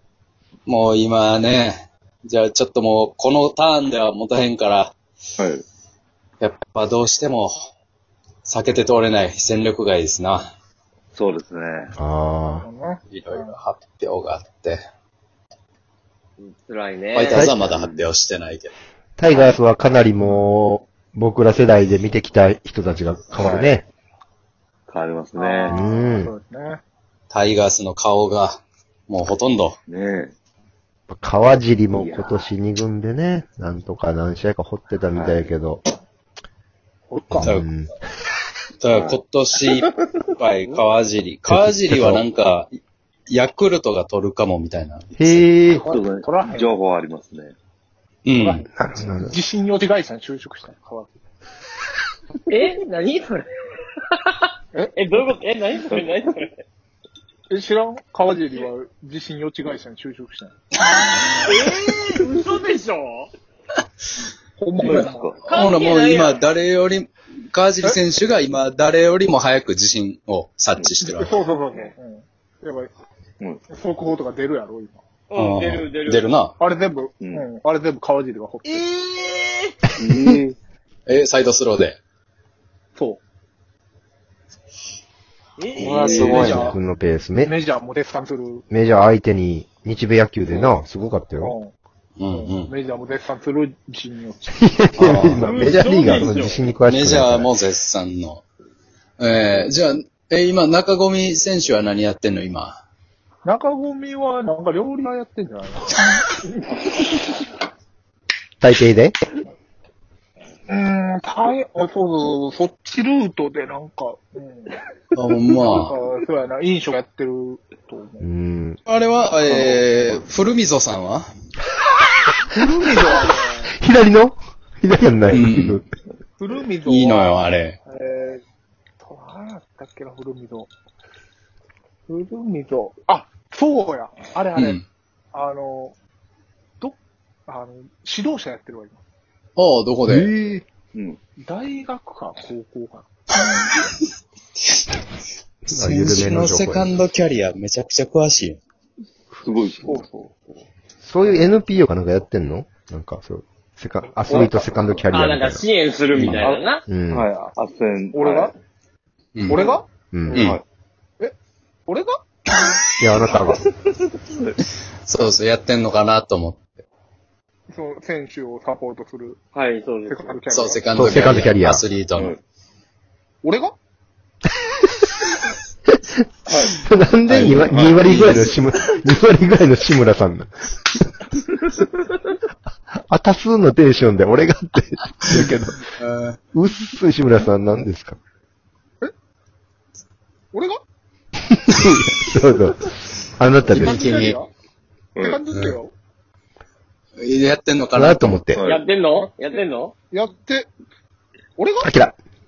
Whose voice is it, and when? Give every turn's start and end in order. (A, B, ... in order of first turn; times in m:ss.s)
0:00.6-0:04.9 A
0:05.4-0:05.6 B
0:06.4-0:07.7 A
0:08.4-0:10.5 A
0:11.1-0:11.9 B
0:12.0-0:12.7 C
0:12.6-0:13.5 D
0:13.1-0:14.8 A
0:16.4-0:17.5 E
0:17.1-0:18.7 A
0:17.4-0:18.1 B
0:19.2-0:23.8 C
0:19.3-0:19.6 E
0:20.2-0:20.4 D
0:23.4-0:23.8 D
0:24.9-0:25.8 B
0:25.4-0:26.8 D
0:25.7-0:26.3 C
0:27.3-0:29.8 A
0:29.9-0:30.3 B
0:31.1-0:35.8 C
0:31.9-0:32.5 B
0:35.1-0:35.5 B
0:37.1-0:37.6 D
0:37.3-0:37.9 C
0:37.4-0:37.7 A
0:38.8-0:42.8 A
0:38.9-0:39.2 B
0:41.5-0:42.2 C
0:43.3-0:45.4 A
0:45.2-0:45.8 C
0:45.7-0:46.7 D
0:45.8-0:47.5 B
0:48.2-0:48.6 A
0:48.3-0:51.2 D
0:48.7-0:49.4 C
0:52.5-0:53.5 E
0:54.1-0:56.5 E
0:55.9-0:56.3 B
0:57.5-1:00.5 D
1:00.9-1:01.4 A
1:01.4-1:03.3 E
1:04.6-1:05.4 D
1:04.8-1:05.5 B
1:04.8-1:11.3 A
1:05.4-1:06.4 E
1:11.0-1:12.9 D
1:13.7-1:15.0 D
1:15.3-1:16.3 E
1:15.3-1:16.5 A
1:16.6-1:18.8 D
1:17.2-1:17.4 B
1:18.7-1:19.8 E
1:20.0-1:20.6 B
1:21.0-1:22.0 A
1:22.9-1:23.2 D
1:25.6-1:26.6 E
1:25.8-1:26.3 B
1:25.8-1:26.7 A
1:26.0-1:27.5 C
1:26.2-1:26.8 D
1:27.4-1:28.6 D
1:28.7-1:31.6 C
1:31.4-1:31.7 D
1:32.2-1:32.7 A
1:32.3-1:35.3 D
1:34.6-1:37.5 C
1:35.0-1:35.5 A
1:35.3-1:36.6 E
1:36.8-1:38.4 A
1:39.2-1:42.8 A
1:43.4-1:46.0 D
1:48.6-1:49.2 C
1:50.7-1:54.8 D
1:55.1-1:55.9 A
1:55.5-1:58.3 D
1:58.2-1:58.8 C
1:58.8-2:01.3 A
2:02.5-2:03.7 D
2:02.5-2:05.9 C
2:05.3-2:05.8 A
2:06.4-2:08.4 D
2:06.8-2:07.8 A
2:09.0-2:10.7 D
2:12.1-2:14.8 D
2:14.5-2:14.8 A
2:15.3-2:15.9 D
2:16.8-2:19.0 D
2:19.6-2:20.3 A
2:20.1-2:20.6 C
2:20.9-2:21.2 B
2:21.4-2:23.7 D
2:25.7-2:26.9 C
2:25.7-2:28.6 A
2:29.4-2:30.5 B
2:31.0-2:35.7 C
2:35.1-2:36.8 E
2:36.1-2:36.4 A
2:36.2-2:38.5 B
2:36.9-2:37.2 C
2:38.1-2:38.5 D
2:39.4-2:39.8 A
2:39.5-2:39.8 D
2:40.1-2:40.5 C
2:40.3-2:40.6 A
2:40.3-2:40.6 B
2:41.9-2:42.2 D
2:43.0-2:43.7 C
2:45.0-2:46.8 A
2:47.7-2:49.4 D
2:49.5-2:50.4 E
2:50.1-2:51.1 D
2:50.5-2:52.4 A
2:50.9-2:51.8 C
2:53.4-2:53.8 D
2:55.9-3:00.5 C
2:56.5-2:56.8 B
2:57.2-2:59.0 A
3:03.1-3:05.9 C
3:05.3-3:06.4 A
3:06.5-3:08.2 C
3:10.5-3:10.8 D
3:11.5-3:14.3 C
3:13.7-3:14.5 D
3:13.7-3:14.4 A
3:15.2-3:15.9 D
3:17.2-3:18.4 A
3:17.9-3:18.6 C
3:18.5-3:18.9 B
3:18.6-3:19.9 E
3:19.2-3:19.5 D
3:20.1-3:20.7 D
3:21.6-3:21.9 D
3:21.8-3:22.1 C